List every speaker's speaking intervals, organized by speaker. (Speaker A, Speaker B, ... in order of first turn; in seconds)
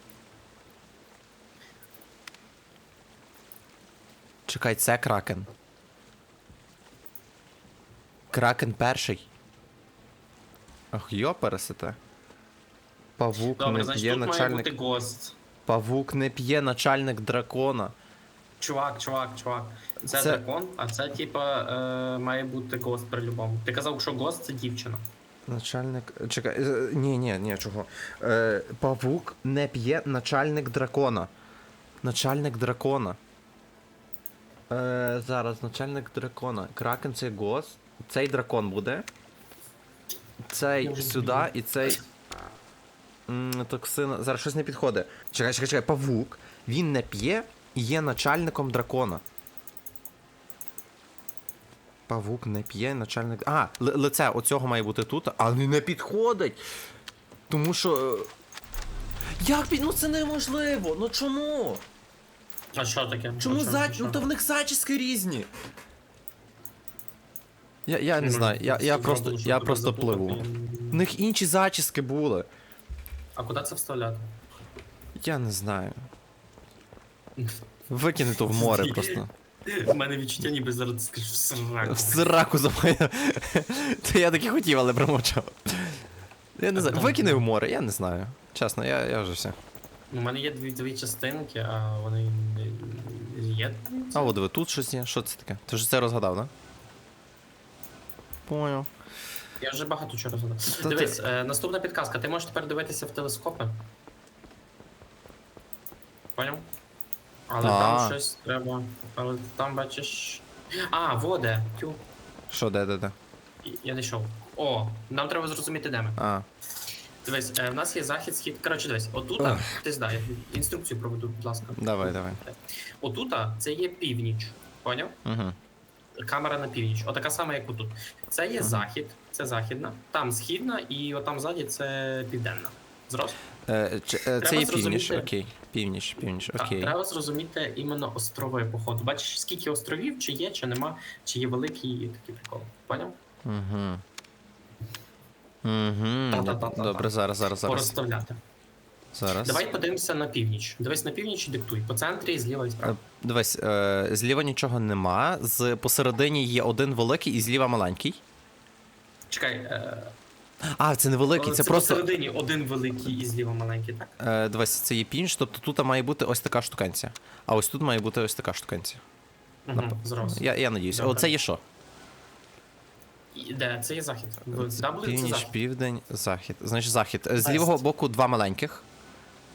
Speaker A: 4.5-5.5, 8.3-9.3, 10.9-12.0, 13.2-14.7, 15.7-17.9, 20.1-20.4, 25.5-31.3, 32.0-33.2, 34.7-39.1, 40.5-42.0, 43.3-49.2, 52.1-56.6, 57.5-58.3, 59.4-61.8, 63.4-65.5, 67.8-72.5, 75.2-76.0, 77.9-79.3, 81.8-86.0, 86.6-89.5, 94.1-96.5, 98.5-98.9, 100.7-101.2, 107.6-108.2, 112.5-113.1, 116.2-116.5, 119.4-119.7, 121.8-122.4, 125.2-125.5, 128.6-128.9, 133.7-136.9, 143.4-144.0, 145.6-147.9, 149.1-149.7, 152.8-158.2, 160.6-162.1, 164.2-169.0, 169.7-171.6, 174.5-178.8
Speaker B: 13.6-15.3, 18.6-25.1, 40.8-41.5, 62.7-64.2, 68.2-71.0, 73.3-74.3, 78.5-82.3, 86.7-87.5, 90.1-94.3, 99.6-103.8, 106.3-106.7, 107.5-112.0, 113.6-116.2, 117.2-125.2, 126.2-133.4, 134.4-135.3, 136.5-143.2, 146.3-148.4, 149.4-153.0, 159.3-160.1, 161.3-164.2, 169.7-171.3, 173.3-175.6, 177.4-177.8